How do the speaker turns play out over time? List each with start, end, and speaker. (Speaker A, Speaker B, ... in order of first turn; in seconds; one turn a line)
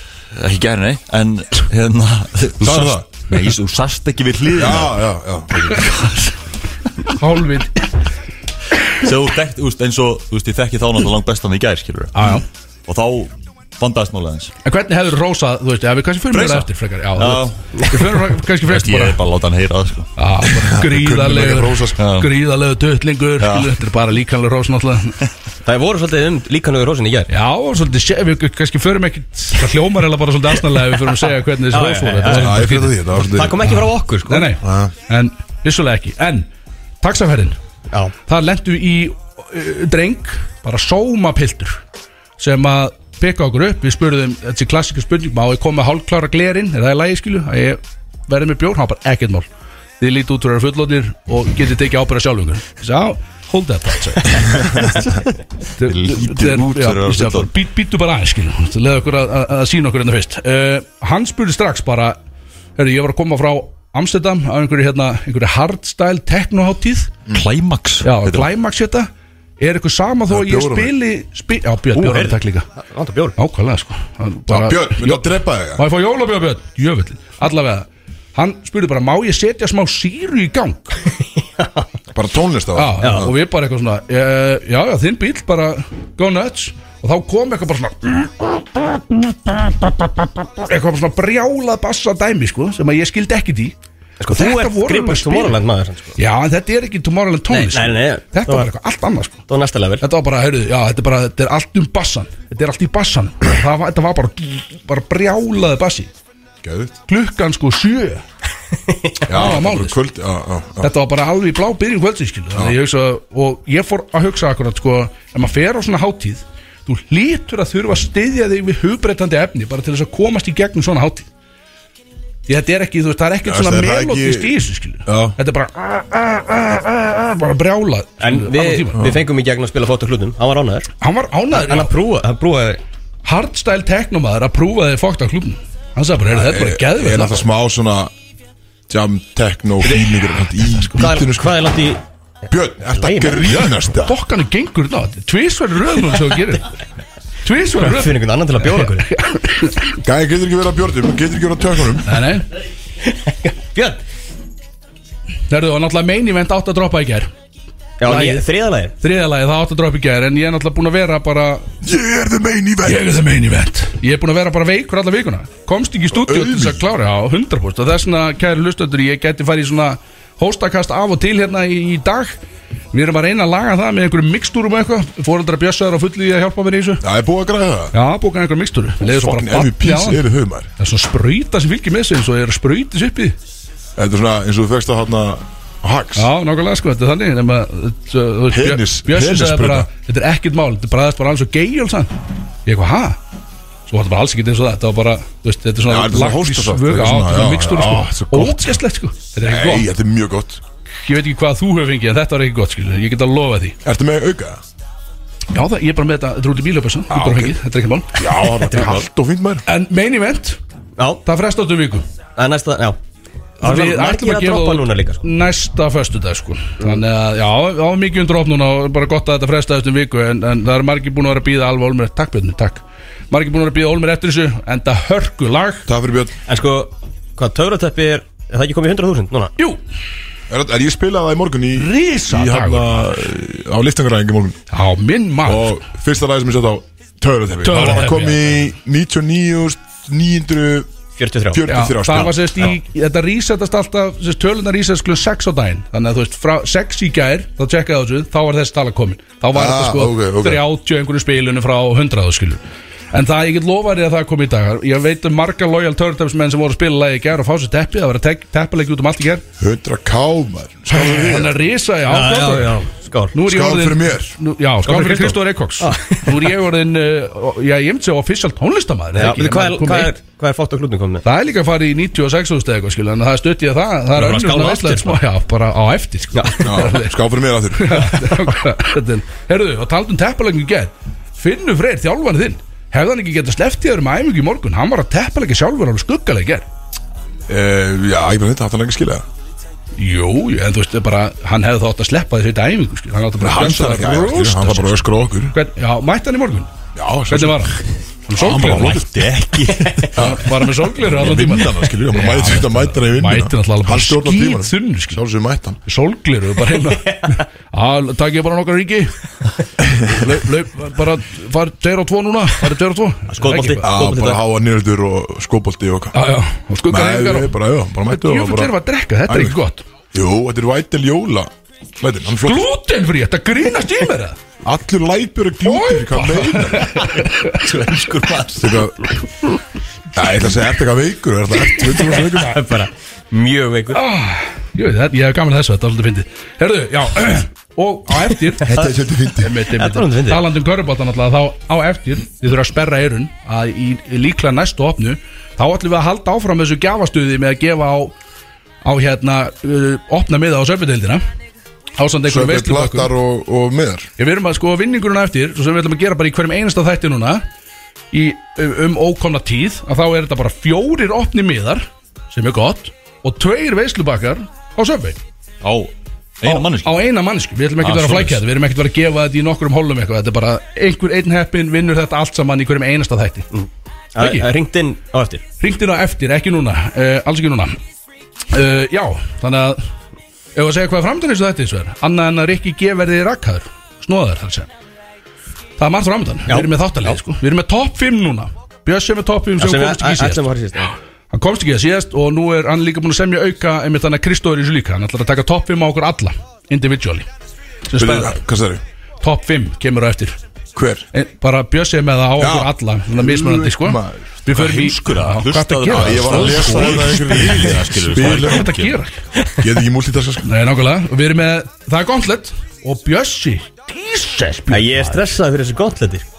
Speaker A: 0.3-5.0
Speaker B: 2.6-3.1
Speaker B: 4.5-5.8
Speaker A: 5.6-6.3
Speaker C: 7.2-7.8
Speaker A: 9.0-12.1
Speaker C: 12.1-12.4
Speaker A: 12.9-14.5
Speaker C: 14.6-19.2
Speaker A: 16.3-17.5
Speaker A: 18.7-20.1
Speaker C: 20.2-25.2
Speaker B: 20.5-22.0
Speaker A: 22.0-22.3
Speaker A: 23.4-23.7
Speaker D: 25.6-27.3
Speaker C: 27.3-33.0
Speaker D: 31.7-32.6
Speaker B: 32.3-33.7
Speaker D: 33.2-34.5
Speaker C: 33.6-36.5
Speaker B: 34.6-34.9
Speaker C: 37.0-37.6
Speaker C: 38.3-41.8
Speaker C: 42.4-49.5
Speaker C: 50.0-54.8
Speaker C: 55.8-62.2
Speaker A: 55.8-57.5
Speaker C: 62.8-67.1
Speaker A: 67.3-68.5
Speaker C: 68.0-69.1
Speaker C: 69.6-72.6
Speaker B: 70.3-70.9
Speaker D: 71.9-73.3
Speaker C: 73.4-81.0
Speaker B: 74.5-75.8
Speaker D: 81.6-81.8
Speaker B: 82.1-83.3
Speaker C: 82.7-93.7
Speaker D: 83.0-83.3
Speaker D: 94.2-96.2
Speaker C: 94.3-95.6
Speaker C: 96.2-99.4
Speaker D: 97.5-98.7
Speaker D: 99.5-100.0
Speaker C: 100.0-106.1
Speaker B: 106.6-107.0
Speaker C: 107.1-108.2
Speaker D: 108.9-109.4
Speaker B: 109.3-110.9
Speaker C: 109.3-110.0
Speaker C: 110.8-121.3
Speaker C: 122.5-129.0
Speaker B: 123.4-124.5
Speaker B: 125.0-125.3
Speaker D: 128.2-130.9
Speaker B: 128.9-129.2
Speaker C: 131.0-131.9
Speaker D: 131.5-132.8
Speaker C: 133.2-137.4
Speaker B: 136.3-138.1
Speaker B: 138.9-141.7
Speaker D: 140.9-142.0
Speaker B: 142.5-144.2
Speaker D: 142.8-143.5
Speaker C: 143.5-146.7
Speaker C: 147.4-149.9
Speaker D: 147.8-149.1
Speaker B: 150.0-152.2
Speaker C: 152.1-152.4
Speaker D: 153.1-154.0
Speaker C: 155.5-157.3
Speaker D: 158.0-158.9
Speaker C: 158.0-158.5
Speaker C: 159.0-161.7
Speaker B: 161.8-163.2
Speaker C: 162.8-172.4
Speaker B: 166.1-166.8
Speaker C: 172.9-177.0
Speaker B: 177.0-177.9
Speaker C: 177.9-180.2
Speaker B: 179.0-180.7
Speaker C: 180.8-183.3
Speaker B: 184.0-186.3
Speaker C: 186.2-192.1
Speaker B: 188.5-189.9
Speaker C: 192.7-193.2
Speaker C: 193.9-199.9
Speaker B: 195.8-198.8
Speaker B: 199.4-200.6
Speaker C: 201.0-203.8
Speaker B: 203.8-204.6
Speaker C: 205.5-208.2
Speaker B: 207.1-207.5
Speaker B: 208.1-209.6
Speaker D: 208.7-209.0
Speaker C: 209.7-210.6
Speaker D: 211.0-211.2
Speaker C: 211.2-212.0
Speaker D: 212.4-213.0
Speaker C: 213.6-225.9
Speaker D: 213.6-215.2
Speaker B: 225.9-226.3
Speaker D: 226.5-229.5
Speaker B: 230.5-234.6
Speaker C: 231.8-233.0
Speaker C: 234.7-235.8
Speaker B: 235.4-240.9
Speaker C: 237.6-238.5
Speaker D: 241.2-241.7
Speaker B: 241.5-242.7
Speaker C: 241.7-252.6
Speaker B: 249.5-250.6
Speaker C: 253.1-259.4
Speaker B: 259.6-261.5
Speaker C: 260.9-262.8
Speaker D: 261.0-261.4
Speaker D: 262.1-263.3
Speaker C: 263.3-270.1
Speaker B: 263.4-264.4
Speaker D: 264.9-266.4
Speaker D: 269.1-271.2
Speaker C: 271.2-277.1
Speaker D: 274.1-275.2
Speaker D: 276.3-276.6
Speaker B: 276.6-278.2
Speaker C: 277.7-286.6
Speaker B: 287.5-289.2
Speaker C: 290.0-296.7
Speaker B: 293.4-295.5
Speaker B: 296.9-297.8
Speaker C: 297.3-297.8
Speaker C: 298.3-299.0
Speaker A: 298.4-300.3
Speaker B: 298.4-299.1
Speaker C: 300.1-305.2
Speaker B: 300.1-305.8
Speaker C: 305.8-309.1
Speaker D: 306.7-307.4
Speaker B: 309.8-310.1
Speaker C: 310.0-313.9
Speaker D: 313.3-314.4
Speaker B: 313.8-316.1
Speaker C: 316.1-317.5
Speaker B: 316.9-318.7
Speaker C: 318.1-319.8
Speaker B: 319.3-319.6
Speaker B: 320.1-322.6
Speaker C: 322.4-324.4
Speaker B: 324.6-327.1
Speaker C: 325.6-327.6
Speaker A: 327.5-328.8
Speaker B: 328.6-329.0
Speaker B: 330.1-332.6
Speaker D: 331.9-334.0
Speaker C: 333.9-338.8
Speaker B: 338.6-339.5
Speaker C: 339.4-348.1
Speaker D: 339.7-340.5
Speaker C: 348.8-351.2
Speaker C: 352.0-353.1
Speaker B: 352.3-354.1
Speaker C: 354.2-357.4
Speaker C: 358.1-365.2
Speaker A: 365.6-366.9
Speaker C: 366.4-373.5
Speaker A: 367.8-368.4
Speaker D: 373.5-375.4
Speaker C: 374.2-374.5
Speaker C: 375.6-377.8
Speaker C: 378.5-379.8
Speaker C: 380.5-384.7
Speaker C: 385.8-390.5
Speaker D: 386.5-387.2
Speaker D: 389.6-390.9
Speaker C: 391.3-397.3
Speaker C: 397.9-398.4
Speaker B: 397.9-398.8
Speaker C: 399.2-400.4
Speaker B: 400.7-401.1
Speaker C: 401.1-407.3
Speaker B: 402.4-404.2
Speaker A: 404.5-408.9
Speaker B: 405.9-408.7
Speaker C: 408.2-409.2
Speaker B: 409.6-410.5
Speaker C: 410.4-415.2
Speaker D: 414.7-416.2